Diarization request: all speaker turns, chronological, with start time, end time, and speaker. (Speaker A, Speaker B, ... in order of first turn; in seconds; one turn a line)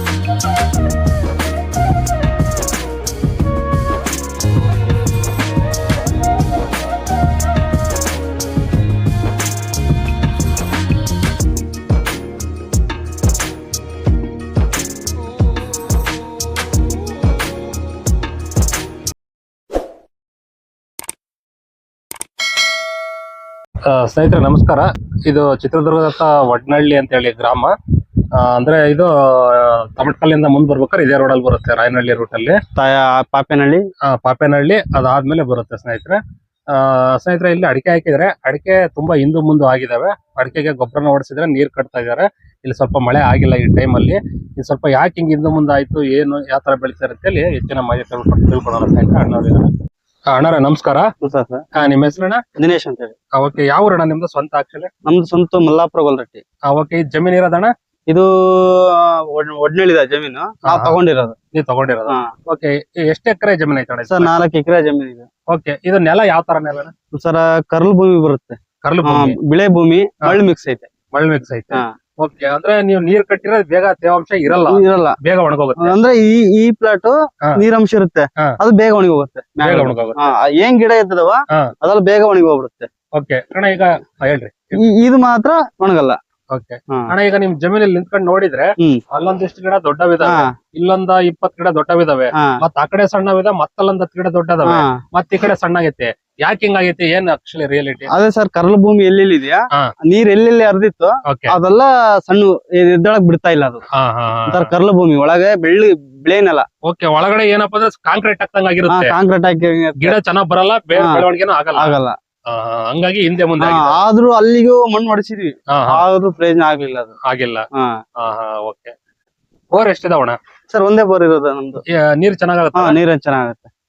Speaker A: 23.9-27.7
Speaker A: 28.3-32.6
Speaker B: 32.8-33.8
Speaker A: 34.1-36.2
Speaker A: 36.7-49.7
Speaker A: 50.3-51.1
Speaker B: 51.2-51.7
Speaker A: 51.7-52.4
Speaker B: 52.6-53.1
Speaker A: 53.3-54.9
Speaker B: 55.0-56.4
Speaker A: 56.7-57.7
Speaker B: 58.1-61.4
Speaker A: 60.6-61.0
Speaker A: 61.5-64.3
Speaker B: 64.1-65.3
Speaker A: 65.5-66.9
Speaker B: 67.1-70.9
Speaker A: 68.8-69.4
Speaker A: 71.1-75.9
Speaker B: 74.5-75.2
Speaker B: 75.8-82.9
Speaker A: 79.6-80.2
Speaker A: 83.1-84.8
Speaker B: 84.8-86.2
Speaker A: 86.5-98.1
Speaker B: 90.2-90.5
Speaker B: 94.7-95.0
Speaker B: 98.1-103.8
Speaker A: 101.3-101.5
Speaker A: 103.9-104.7
Speaker B: 104.5-106.7
Speaker A: 106.8-109.1
Speaker B: 108.9-110.2
Speaker A: 110.0-111.9
Speaker B: 110.9-111.2
Speaker B: 111.8-112.2
Speaker A: 112.5-114.0
Speaker B: 113.6-117.1
Speaker A: 115.7-116.0
Speaker A: 117.2-117.6
Speaker B: 117.7-118.0
Speaker A: 118.2-118.9
Speaker A: 119.7-120.4
Speaker B: 120.7-121.8
Speaker A: 121.9-123.0
Speaker B: 122.8-123.7